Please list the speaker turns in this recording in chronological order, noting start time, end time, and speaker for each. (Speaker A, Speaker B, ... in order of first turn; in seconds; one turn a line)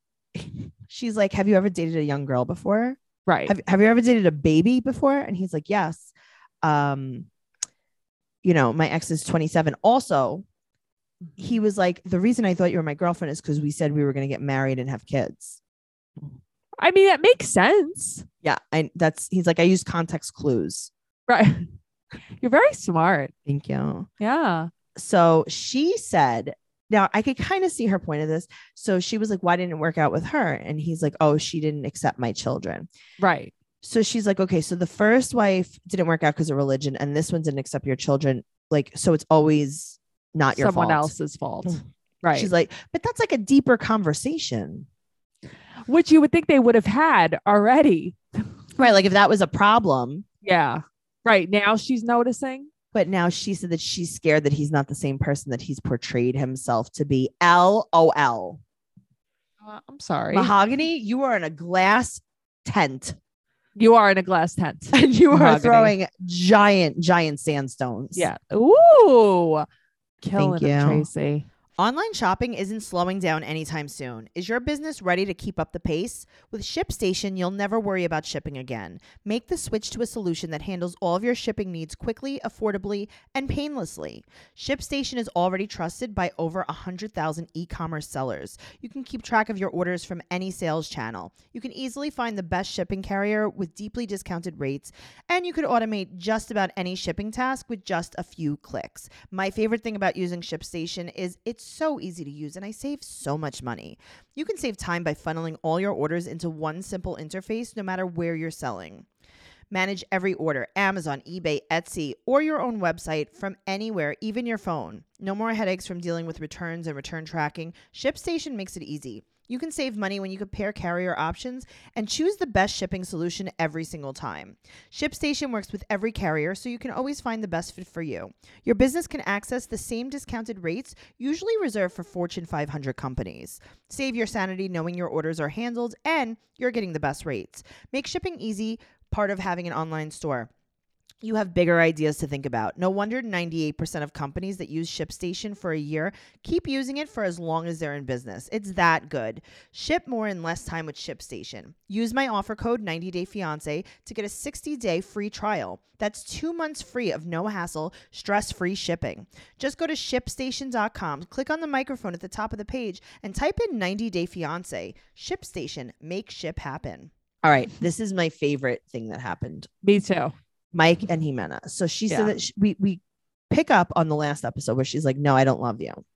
Speaker A: 0.3-6.1
Speaker B: 3.2-3.5
Speaker A: 6.6-7.3
Speaker A: 8.4-10.4
Speaker A: 11.4-15.6
Speaker B: 16.8-18.2
Speaker A: 18.4-20.9
Speaker B: 21.3-21.7
Speaker B: 22.4-23.3
Speaker A: 23.4-24.1
Speaker B: 24.2-24.7
Speaker A: 24.9-32.9
Speaker B: 33.2-33.5
Speaker A: 33.8-41.1
Speaker B: 40.5-42.5
Speaker A: 42.3-44.9
Speaker B: 45.9-48.2
Speaker A: 48.8-50.2
Speaker B: 50.4-52.7
Speaker A: 52.9-58.6
Speaker B: 59.6-60.5
Speaker A: 60.3-63.2
Speaker B: 63.8-65.9
Speaker A: 64.9-68.3
Speaker B: 68.1-69.7
Speaker B: 70.2-71.5
Speaker A: 70.3-71.1
Speaker A: 71.8-109.0
Speaker A: 109.7-140.5
Speaker A: 141.2-169.7
Speaker B: 169.8-170.3
Speaker A: 170.7-176.0
Speaker B: 172.1-172.3